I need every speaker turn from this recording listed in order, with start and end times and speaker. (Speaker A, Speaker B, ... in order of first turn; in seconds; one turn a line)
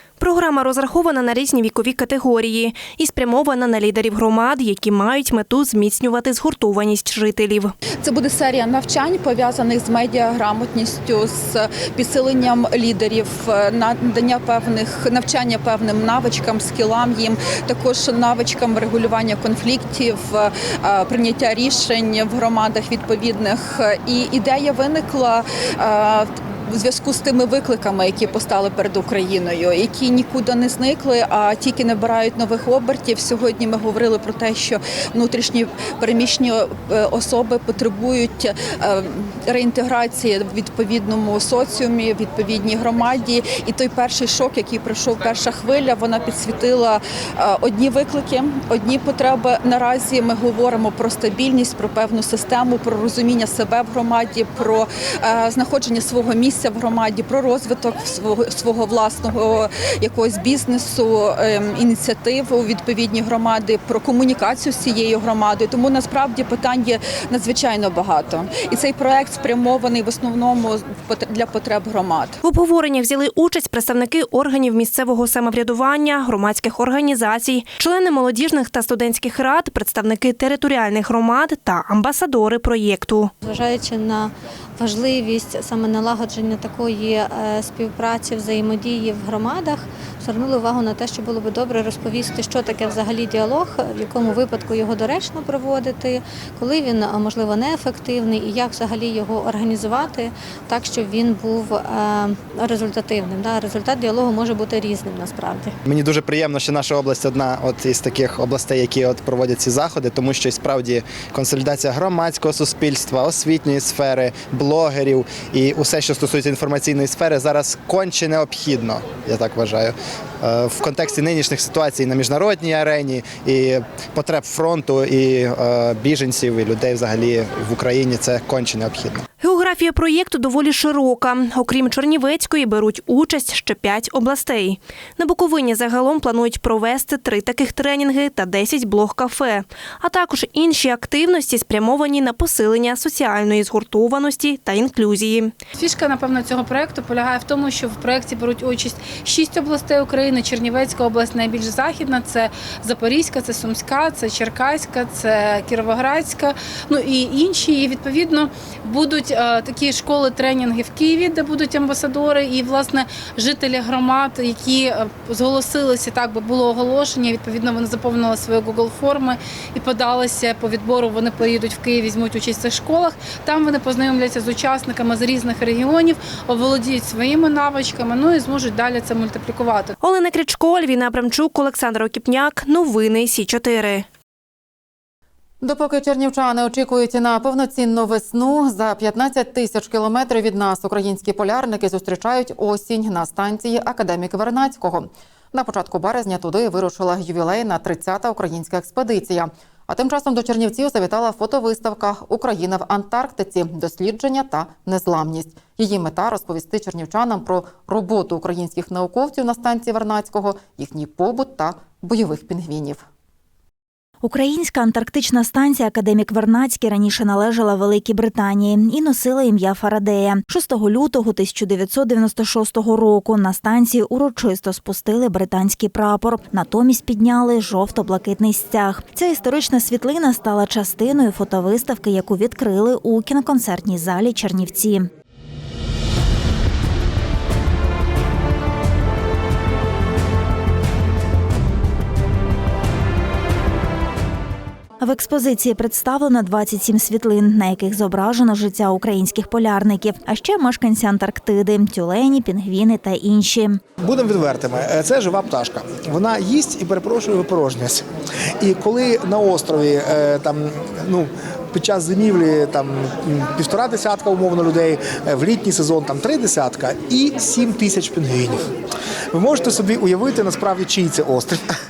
Speaker A: 0.2-7.7
Speaker B: 8.0-72.4
Speaker A: 72.4-83.3
Speaker C: 83.4-105.7
Speaker D: 105.9-129.2
Speaker A: 129.4-145.5
Speaker E: 145.8-179.9
Speaker A: 180.0-184.1
Speaker F: 185.6-213.0
Speaker G: 214.2-235.1
Speaker G: 245.0-253.8
Speaker H: 254.0-258.1
Speaker H: 258.6-268.7
Speaker H: 269.3-271.6